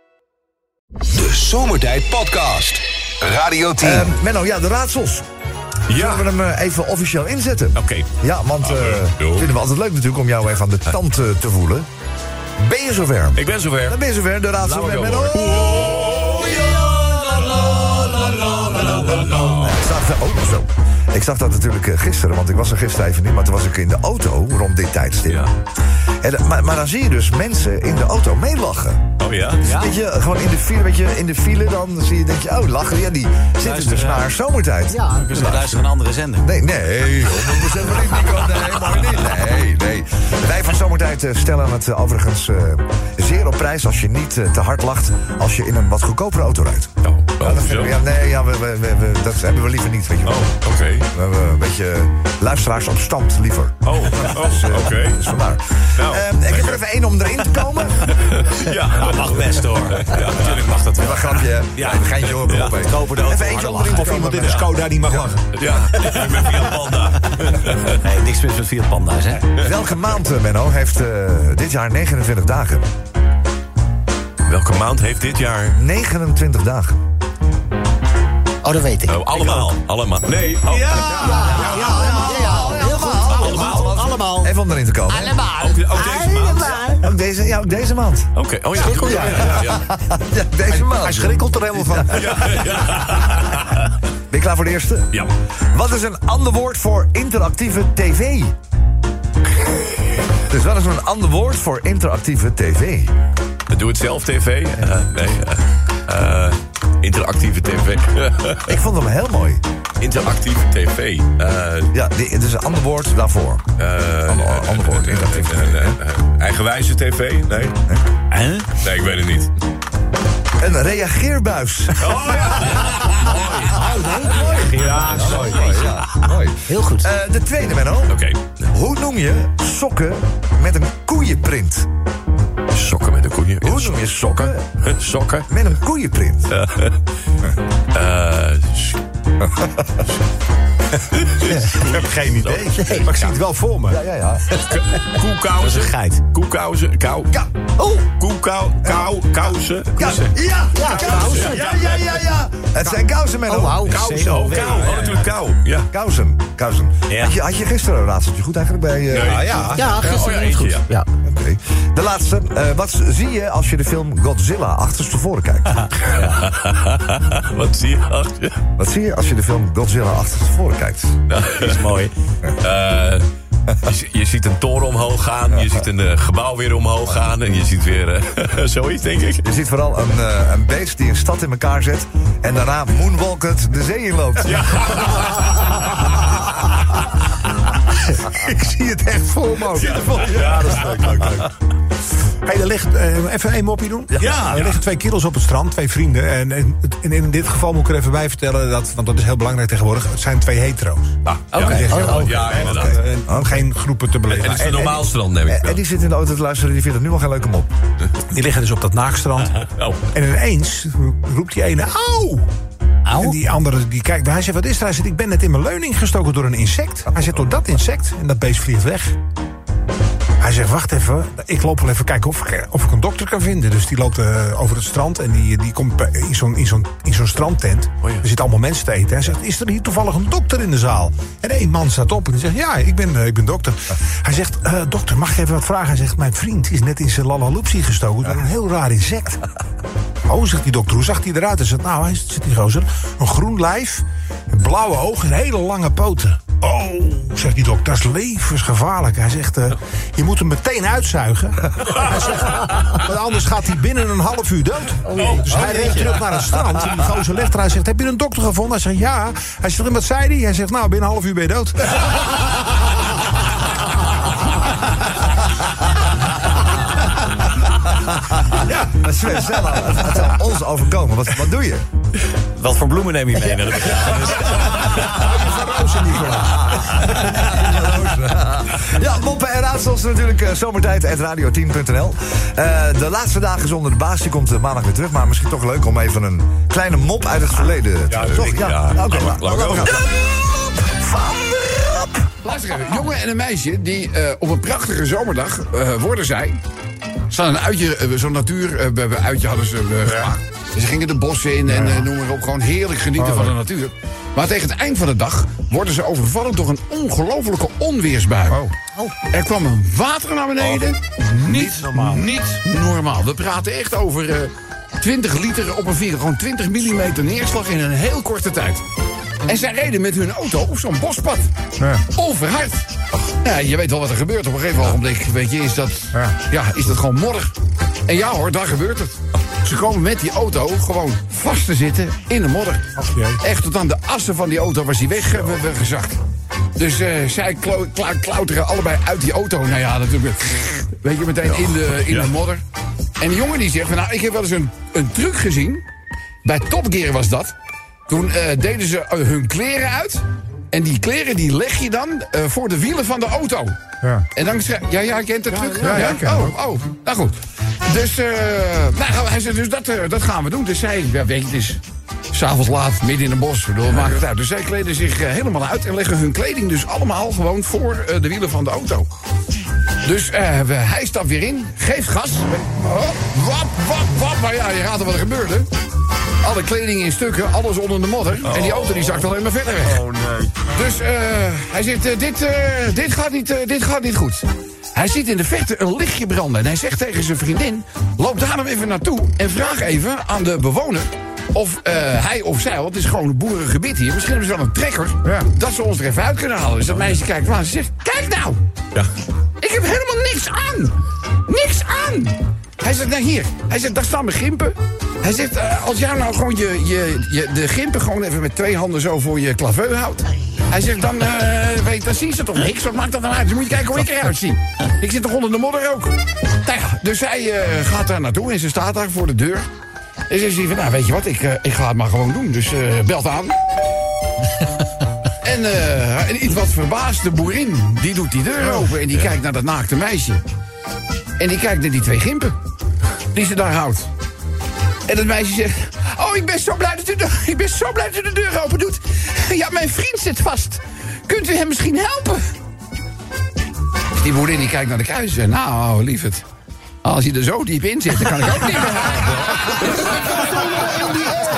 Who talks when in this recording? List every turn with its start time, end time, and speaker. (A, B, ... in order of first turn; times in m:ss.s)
0:01.1-0:04.1 A
0:03.8-0:05.2 B
0:05.9-0:06.2 C
0:05.9-0:11.9 B
0:07.7-0:08.1 C
0:08.6-0:09.5 C
0:12.6-0:15.8 B
0:13.4-0:14.0 C
0:14.6-0:19.8 C
0:18.7-0:25.5 B
0:25.3-0:25.5 C
0:26.2-0:35.9 B
0:29.2-0:29.8 C
0:33.6-0:34.2 D
0:34.9-0:35.3 E
0:35.1-0:36.5 D
0:36.4-0:50.6 B
0:47.0-0:47.9 C
0:50.2-0:51.1 C
0:51.1-0:58.1 B
0:53.8-0:55.3 C
0:55.9-0:56.8 C
0:58.1-1:00.8 C
0:59.0-1:04.7 D
1:01.0-1:05.3 B
1:03.9-1:05.4 F
1:05.5-1:08.1 C
1:08.0-1:09.5 D
1:09.6-1:12.9 B
1:14.4-1:15.8 C
1:15.8-1:17.0 B
1:18.6-1:19.6 E
1:19.1-1:21.8 C
1:20.7-1:21.2 D
1:21.1-1:24.5 E
1:21.2-1:21.5 F
1:21.3-1:25.4 B
1:23.4-1:23.8 C
1:25.1-1:27.0 E
1:25.4-1:26.8 C
1:27.0-1:28.3 B
1:28.3-1:29.9 C
1:28.8-1:29.4 E
1:29.0-1:29.5 F
1:29.0-1:32.6 B
1:30.7-1:32.4 F
1:32.0-1:33.8 C
1:34.3-1:38.6 B
1:40.5-1:43.1 B
1:43.7-1:48.8 C
1:48.7-1:49.6 B
1:50.0-1:51.9 C
1:51.9-1:53.7 B
1:53.8-1:57.8 C
1:54.2-1:56.0 B
1:57.6-1:58.0 B
1:58.3-1:58.7 D
1:58.7-1:59.5 C
2:00.6-2:02.5 B
2:02.0-2:03.8 C
2:03.8-2:04.4 E
2:04.2-2:08.2 B
2:04.6-2:05.6 C
2:04.8-2:05.7 F
2:06.7-2:07.1 E
2:08.1-2:08.7 C
2:08.7-2:11.9 B
2:12.7-2:15.5 C
2:13.6-2:14.7 B
2:15.5-2:16.5 B
2:16.5-2:17.0 C
2:17.9-2:19.0 C
2:19.6-2:20.0 B
2:21.1-2:23.4 C
2:21.5-2:24.0 F
2:22.8-2:23.0 E
2:23.9-2:24.5 B
2:24.5-2:27.3 C
2:25.6-2:26.2 D
2:28.0-2:30.2 C
2:28.8-2:29.6 F
2:28.8-2:29.1 B
2:30.0-2:33.9 B
2:30.0-2:30.3 D
2:30.7-2:31.7 E
2:31.0-2:31.8 F
2:31.1-2:31.9 C
2:33.5-2:34.0 E
2:33.9-2:35.2 F
2:33.9-2:35.0 D
2:34.0-2:35.9 C
2:35.9-2:39.8 B
2:39.1-2:40.9 C
2:39.3-2:39.7 F
2:39.7-2:41.1 E
2:41.2-2:45.9 B
2:46.0-2:48.6 C
2:48.8-2:51.2 B
2:51.3-2:52.1 C
2:51.6-2:52.1 D
2:52.6-2:53.2 C
2:53.8-2:59.4 C
2:59.4-3:04.7 B
3:04.5-3:05.7 C
3:08.2-3:09.9 F
3:09.6-3:11.5 B
3:09.8-3:11.4 C
3:12.4-3:25.0 F
3:14.1-3:14.6 B
3:14.2-3:14.8 C
3:21.2-3:23.0 C
3:21.9-3:22.4 E
3:22.5-3:23.7 B
3:24.3-3:25.8 C
3:24.6-3:27.7 B
3:28.3-3:32.5 F
3:29.6-3:30.0 C
3:33.1-3:33.4 D
3:33.1-3:39.2 F
3:40.4-3:59.4 F
3:48.0-3:48.3 C
4:00.3-4:22.3 F
4:15.0-4:16.1 E
4:15.6-4:15.9 D
4:28.6-4:28.9 F
4:28.8-4:31.9 B
4:32.5-4:35.1 D
4:34.7-4:37.2 F
4:36.6-4:52.0 B
4:48.1-4:50.1 C
4:52.4-4:56.6 G
4:57.3-5:08.6 G
5:01.7-5:02.1 F
5:03.2-5:03.5 F
5:09.3-5:18.8 G
5:11.2-5:12.2 F
5:19.4-5:21.5 G
5:21.8-5:22.0 F
5:22.1-5:22.9 G
5:23.4-5:27.5 G
5:28.0-5:36.2 G
5:33.0-5:33.4 F
5:36.8-5:42.6 G
5:41.4-5:42.3 C
5:43.2-5:45.8 G
5:46.4-5:47.5 G
5:48.1-5:53.8 G
5:54.3-6:01.8 G
5:55.5-5:56.6 F
6:02.3-6:09.1 G
6:10.0-6:15.7 G
6:16.4-6:20.1 G
6:18.6-6:18.9 C
6:20.2-6:20.5 C
6:20.7-6:38.6 G
6:39.6-6:59.6 G
7:00.3-7:03.5 G
7:05.4-7:10.4 G
7:11.4-7:12.5 G
7:13.3-7:14.1 G
7:15.1-7:22.4 G
7:24.2-7:26.4 G
7:27.0-7:31.1 G